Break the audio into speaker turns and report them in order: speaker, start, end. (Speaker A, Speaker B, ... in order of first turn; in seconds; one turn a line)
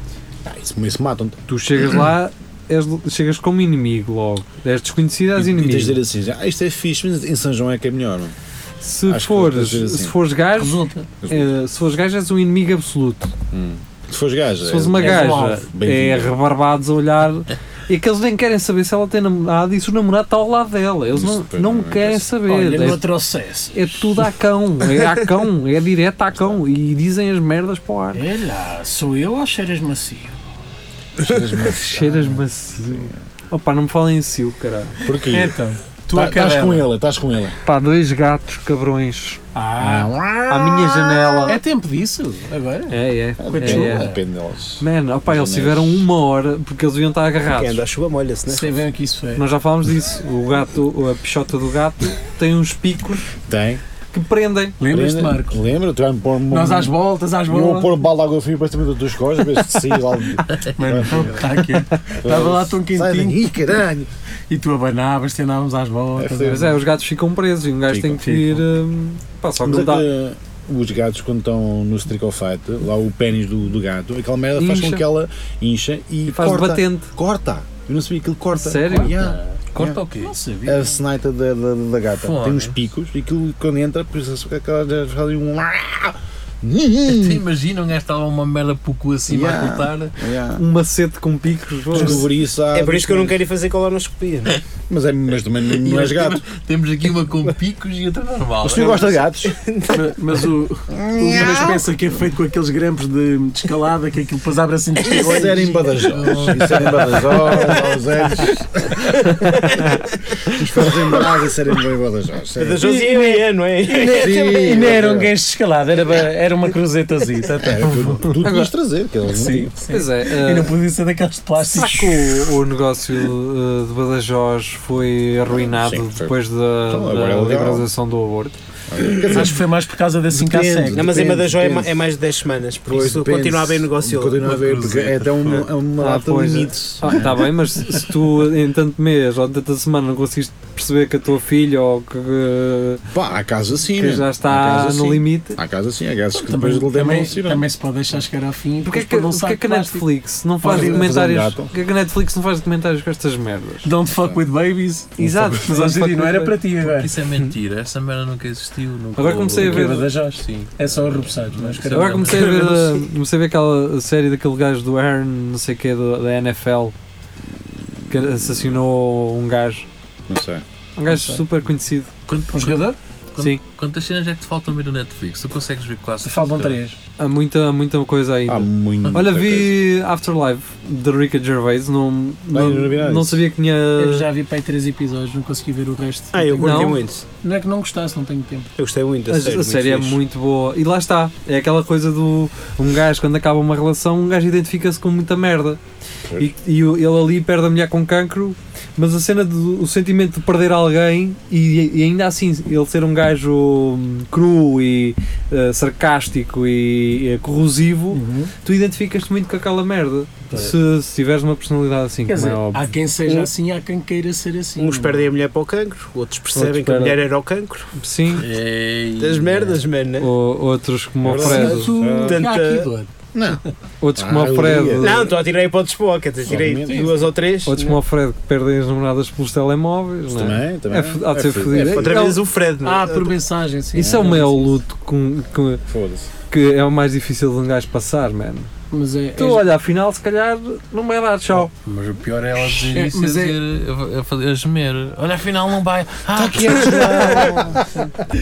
Speaker A: 0.4-1.4
Speaker B: 1.5-6.0
Speaker A: 5.3-8.3
Speaker B: 8.8-13.3
Speaker A: 9.1-10.2
Speaker C: 10.6-11.1
Speaker A: 11.2-11.5
Speaker A: 13.5-16.3
Speaker B: 14.6-23.0
Speaker C: 14.9-15.6
Speaker A: 21.1-22.3
Speaker C: 22.4-24.1
Speaker B: 23.7-28.2
Speaker A: 26.3-26.6
Speaker C: 28.1-30.4
Speaker A: 31.2-33.1
Speaker B: 31.6-35.0
Speaker A: 35.0-35.6
Speaker C: 35.2-36.9
Speaker A: 36.1-37.6
Speaker B: 37.6-39.4
Speaker C: 39.5-40.1
Speaker A: 39.8-41.5
Speaker B: 40.5-41.6
Speaker C: 41.5-44.2
Speaker B: 42.9-44.1
Speaker A: 43.4-45.9
Speaker B: 44.8-47.8
Speaker D: 47.5-48.8
Speaker C: 48.5-49.4
Speaker B: 49.4-53.3
Speaker A: 53.5-53.8
Speaker B: 54.1-54.8
Speaker C: 54.8-55.6
Speaker A: 54.9-61.5
Speaker C: 56.5-58.0
Speaker E: 60.5-61.4
Speaker C: 60.8-63.6
Speaker A: 62.2-64.1
Speaker C: 64.5-66.8
Speaker A: 66.2-66.8
Speaker B: 66.5-70.1
Speaker A: 67.9-68.5
Speaker A: 69.6-80.0
Speaker B: 74.5-75.0
Speaker B: 76.3-77.1
Speaker B: 78.6-79.2
Speaker C: 78.9-79.6
Speaker E: 79.7-80.3
Speaker C: 80.2-81.0
Speaker A: 80.7-87.4
Speaker E: 82.2-82.8
Speaker E: 87.1-90.1
Speaker A: 89.3-90.6
Speaker B: 90.5-92.3
Speaker A: 91.9-93.4
Speaker D: 92.7-94.6
Speaker A: 94.9-96.4
Speaker E: 95.7-99.0
Speaker A: 98.6-99.5
Speaker D: 98.7-100.1
Speaker C: 99.9-106.4
Speaker A: 100.9-101.9
Speaker A: 105.0-109.2
Speaker E: 106.1-107.3
Speaker D: 109.1-110.0
Speaker A: 110.5-113.1
Speaker D: 112.6-115.1
Speaker C: 112.8-118.4
Speaker A: 114.0-115.3
Speaker A: 117.6-119.7
Speaker B: 118.4-118.7
Speaker C: 119.3-122.5
Speaker B: 119.9-120.8
Speaker B: 121.6-128.5
Speaker A: 125.5-126.3
Speaker A: 126.9-127.9
Speaker A: 128.9-129.6
Speaker C: 129.3-131.4
Speaker A: 130.3-132.0
Speaker D: 130.9-134.5
Speaker A: 132.9-137.5
Speaker E: 134.4-135.7
Speaker B: 136.0-143.0
Speaker A: 143.1-147.7
Speaker B: 143.9-145.6
Speaker C: 146.3-150.0
Speaker B: 148.8-153.9
Speaker C: 150.6-151.2
Speaker A: 150.6-151.7
Speaker C: 153.8-157.1
Speaker B: 155.2-156.6
Speaker E: 156.8-162.8
Speaker B: 159.2-160.1
Speaker C: 159.5-162.8
Speaker B: 161.9-166.9
Speaker B: 168.1-169.8
Speaker A: 168.2-168.7
Speaker A: 170.3-170.6
Speaker B: 171.0-172.1
Speaker C: 171.1-171.4
Speaker E: 172.3-176.8
Speaker C: 172.5-173.0
Speaker C: 176.2-177.0
Speaker B: 177.2-184.3
Speaker A: 178.5-179.8
Speaker A: 182.5-183.4
Speaker C: 183.9-188.7
Speaker D: 186.3-187.2
Speaker B: 186.6-187.0
Speaker D: 188.8-190.2
Speaker B: 189.3-195.8
Speaker A: 196.2-196.5
Speaker B: 196.4-212.9
Speaker C: 208.1-208.5
Speaker C: 212.3-215.3
Speaker D: 214.8-217.9
Speaker B: 216.5-217.2
Speaker B: 218.0-218.5
Speaker E: 218.3-219.8
Speaker D: 219.2-220.3
Speaker B: 220.2-221.9
Speaker A: 221.2-222.5
Speaker C: 221.3-223.1
Speaker D: 222.2-222.9
Speaker A: 223.3-223.6
Speaker B: 224.0-225.4
Speaker A: 224.1-225.3
Speaker D: 225.0-227.9
Speaker A: 226.4-227.1
Speaker C: 226.8-227.2
Speaker B: 227.6-232.4
Speaker A: 230.3-232.3
Speaker D: 231.9-233.3
Speaker C: 232.8-234.8
Speaker B: 233.9-235.8
Speaker A: 235.9-236.3
Speaker B: 236.5-238.7
Speaker C: 238.9-239.7
Speaker B: 239.4-241.7
Speaker E: 241.8-247.1
Speaker C: 242.7-243.6
Speaker A: 246.3-248.1
Speaker C: 246.9-247.4